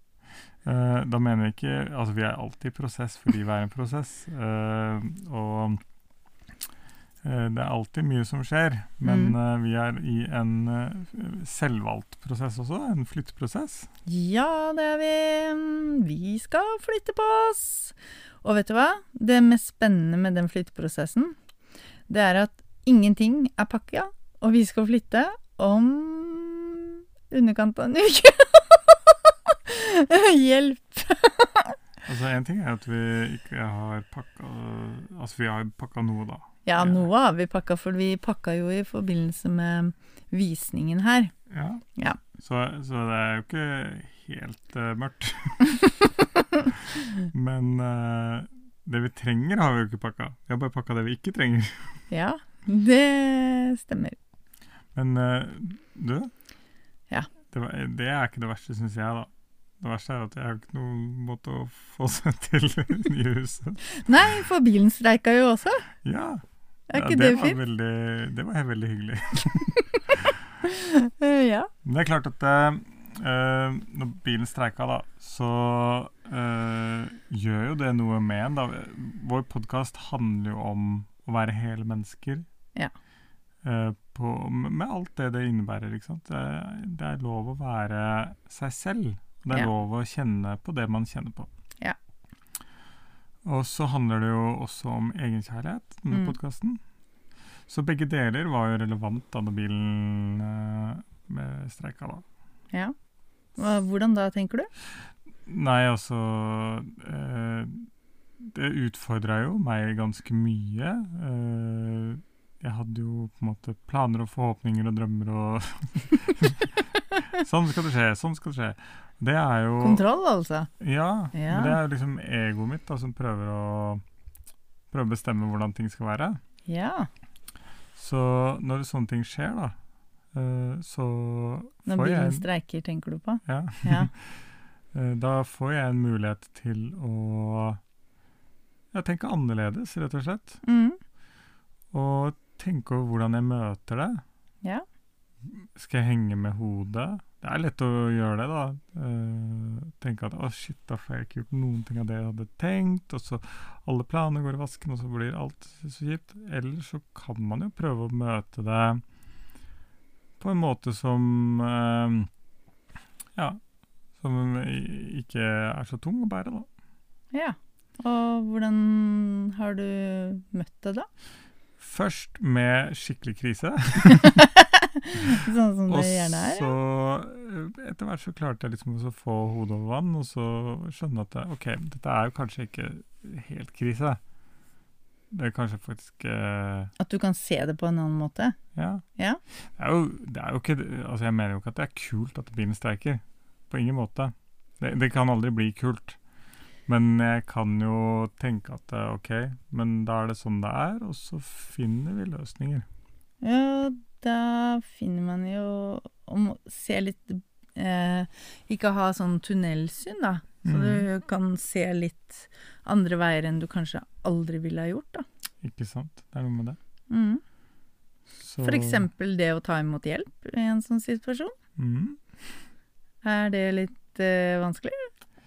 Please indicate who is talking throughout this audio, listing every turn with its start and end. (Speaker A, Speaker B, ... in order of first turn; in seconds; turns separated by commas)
Speaker A: 0.6-5.8, Speaker A: 7.2-13.9, Speaker B: 9.0-9.3, Speaker B: 14.1-21.4, Speaker B: 22.1-31.8, Speaker A: 32.0-37.1, Speaker B: 36.6-41.3, Speaker A: 41.5-45.7, Speaker B: 42.0-42.2, Speaker A: 47.3-51.9, Speaker B: 52.1-54.2, Speaker A: 54.9-56.3, Speaker A: 57.5-64.0, Speaker B: 63.9-65.8, Speaker A: 66.0-70.3, Speaker B: 66.9-67.6, Speaker B: 70.6-71.7, Speaker A: 71.8-82.5, Speaker A: 83.6-91.5, Speaker A: 93.4-96.8, Speaker B: 96.1-96.3, Speaker A: 97.7-102.2, Speaker B: 103.6-104.7, Speaker A: 105.5-107.9, Speaker A: 108.4-120.0, Speaker B: 119.8-120.7, Speaker A: 120.8-124.0, Speaker B: 121.3-121.8, Speaker A: 124.9-126.4, Speaker B: 126.7-127.1, Speaker A: 127.9-129.8, Speaker A: 130.3-132.5, Speaker B: 131.8-134.1, Speaker A: 133.4-137.8, Speaker A: 138.9-140.6, Speaker B: 140.6-141.0, Speaker A: 141.9-144.2, Speaker A: 145.4-159.0, Speaker A: 160.4-162.3, Speaker A: 163.3-163.6, Speaker A: 164.2-166.7, Speaker B: 167.3-171.1, Speaker A: 171.8-174.4, Speaker B: 174.2-176.7, Speaker A: 175.9-184.2, Speaker A: 185.3-186.9, Speaker B: 187.0-188.6, Speaker A: 188.7-189.0, Speaker A: 189.6-196.2, Speaker A: 196.9-202.8, Speaker B: 203.4-215.2, Speaker A: 210.6-211.1, Speaker A: 215.6-216.8, Speaker B: 217.1-217.4, Speaker A: 218.4-219.1, Speaker B: 218.6-221.5, Speaker A: 221.8-222.2, Speaker B: 223.2-225.1